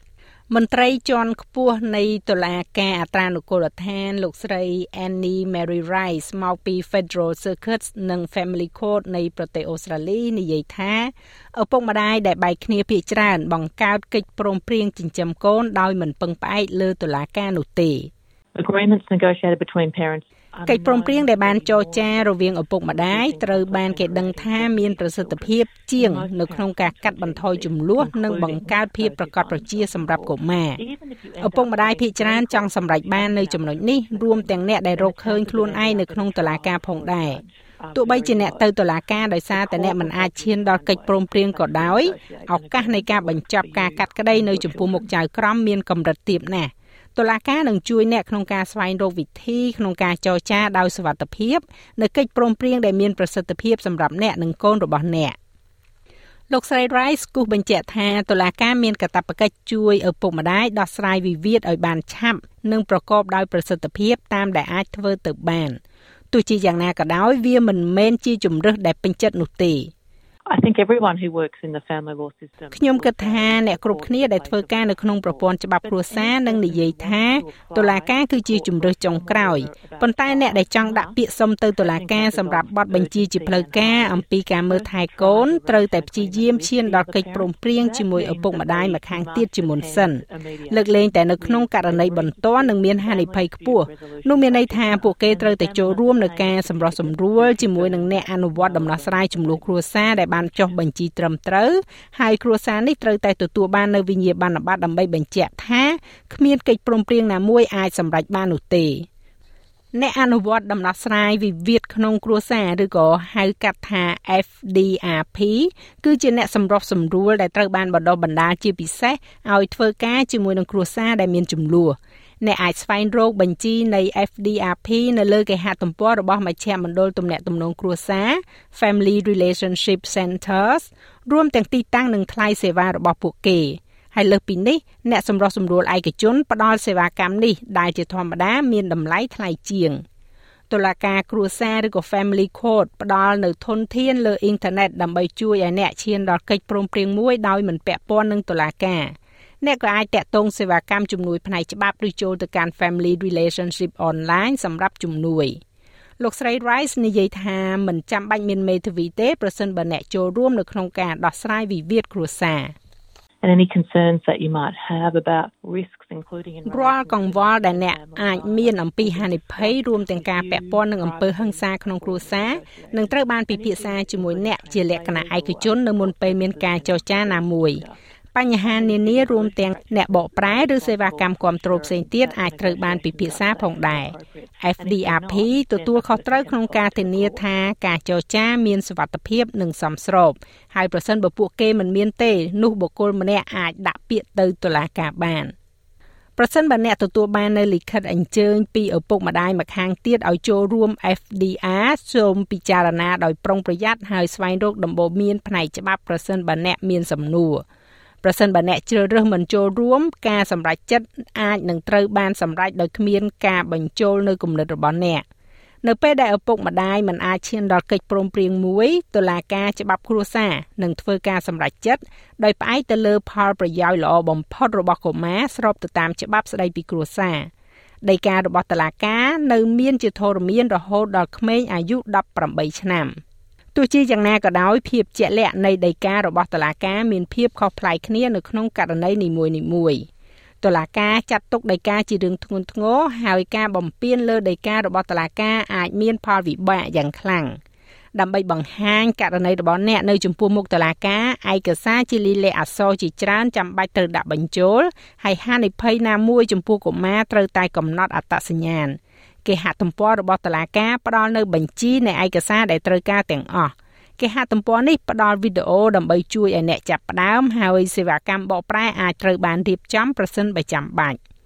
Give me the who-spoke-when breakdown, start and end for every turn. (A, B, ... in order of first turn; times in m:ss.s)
0:00.5-0:18.1 A
0:18.5-0:45.1 B
0:20.7-0:30.8 A
0:31.4-0:37.4 A
0:37.9-0:55.4 A
0:56.5-1:05.8 A
1:06.3-1:09.9 A
1:10.5-1:21.2 B
1:12.7-1:49.1 A
1:21.8-1:40.7 B
1:49.9-2:20.0 A
2:20.7-2:35.6 A
2:36.2-2:42.7 A
2:43.4-2:57.9 B
2:46.6-2:57.8 A
2:58.3-3:15.5 A
2:58.6-3:07.5 B
3:16.4-3:27.6 A
3:28.2-3:35.2 A
3:35.8-3:47.5 A
3:48.0-3:53.2 A
3:53.7-4:00.0 A
4:00.6-4:07.6 A
4:08.1-4:31.2 A